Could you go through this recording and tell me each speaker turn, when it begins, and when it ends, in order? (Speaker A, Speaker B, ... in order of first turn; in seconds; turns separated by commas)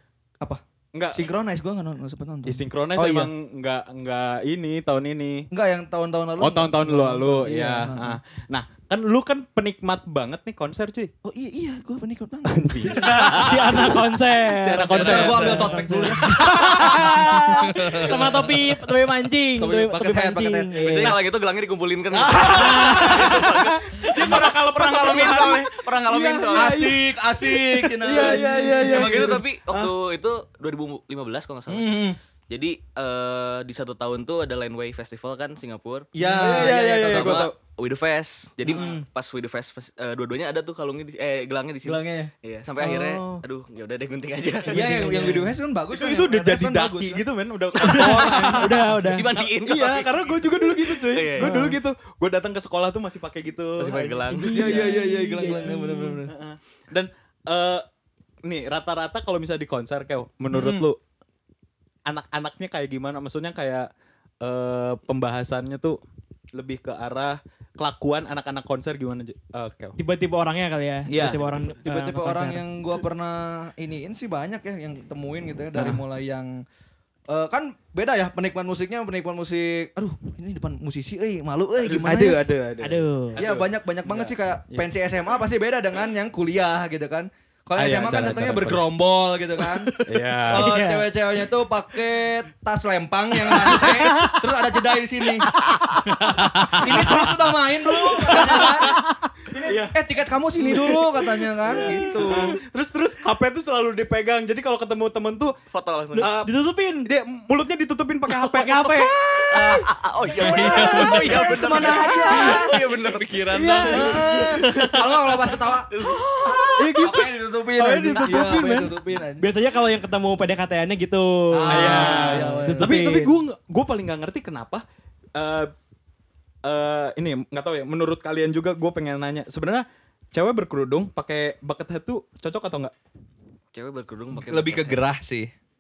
Speaker A: 0.9-1.3, Speaker B: 1.1-3.3, Speaker A: 2.5-5.5, Speaker B: 5.5-8.2, Speaker A: 6.4-11.1, Speaker B: 11.2-13.9, Speaker A: 12.7-13.4, Speaker C: 12.8-21.2, Speaker D: 13.1-13.4, Speaker A: 14.6-16.6, Speaker E: 14.9-15.8, Speaker B: 14.9-17.1, Speaker E: 17.5-18.5, Speaker B: 19.6-21.2, Speaker D: 20.8-26.8, Speaker A: 22.2-29.9, Speaker B: 22.5-22.9, Speaker C: 22.5-23.5, Speaker B: 24.2-25.4, Speaker B: 26.4-29.4, Speaker D: 28.1-45.0, Speaker B: 31.7-32.2, Speaker B: 36.1-37.5, Speaker A: 36.2-37.5, Speaker A: 38.7-39.0, Speaker B: 41.8-42.3, Speaker C: 42.8-43.4, Speaker B: 44.7-47.3, Speaker C: 44.8-45.5, Speaker A: 44.9-57.9, Speaker D: 47.8-51.6, Speaker C: 47.8-49.3, Speaker C: 51.4-51.8, Speaker D: 53.8-54.9, Speaker B: 54.5-56.4, Speaker C: 55.0-55.4, Speaker A: 58.5-61.0, Speaker A: 62.1-63.9, Speaker A: 64.4-66.0, Speaker A: 66.5-70.0, Speaker C: 70.0-72.7, Speaker A: 71.1-71.4, Speaker D: 71.1-71.8, Speaker B: 71.8-76.5, Speaker A: 75.8-76.0, Speaker B: 77.3-82.5, Speaker A: 82.0-84.9, Speaker C: 82.8-83.4, Speaker B: 83.3-89.9, Speaker A: 87.8-88.8, Speaker A: 90.1-90.7, Speaker B: 90.5-95.5, Speaker C: 90.5-91.1, Speaker C: 93.7-94.4, Speaker C: 96.4-97.3, Speaker B: 96.7-102.5, Speaker A: 98.2-98.8, Speaker C: 98.2-99.0, Speaker A: 99.6-100.0, Speaker A: 100.6-101.0, Speaker A: 101.6-105.6, Speaker C: 101.7-102.3, Speaker D: 105.7-106.3, Speaker C: 106.2-107.1, Speaker A: 106.2-106.5, Speaker A: 107.0-109.9, Speaker C: 108.3-109.2, Speaker D: 109.5-116.2, Speaker B: 109.5-109.9, Speaker E: 110.4-111.4, Speaker A: 110.5-112.2, Speaker B: 110.5-112.7, Speaker E: 112.5-114.1, Speaker A: 113.5-114.7, Speaker B: 113.9-119.5, Speaker A: 116.8-117.3, Speaker C: 117.8-123.4, Speaker A: 118.2-118.9, Speaker B: 121.5-123.0, Speaker A: 121.7-124.8, Speaker A: 125.3-125.7, Speaker A: 126.7-132.9, Speaker D: 133.7-135.0, Speaker E: 134.4-135.5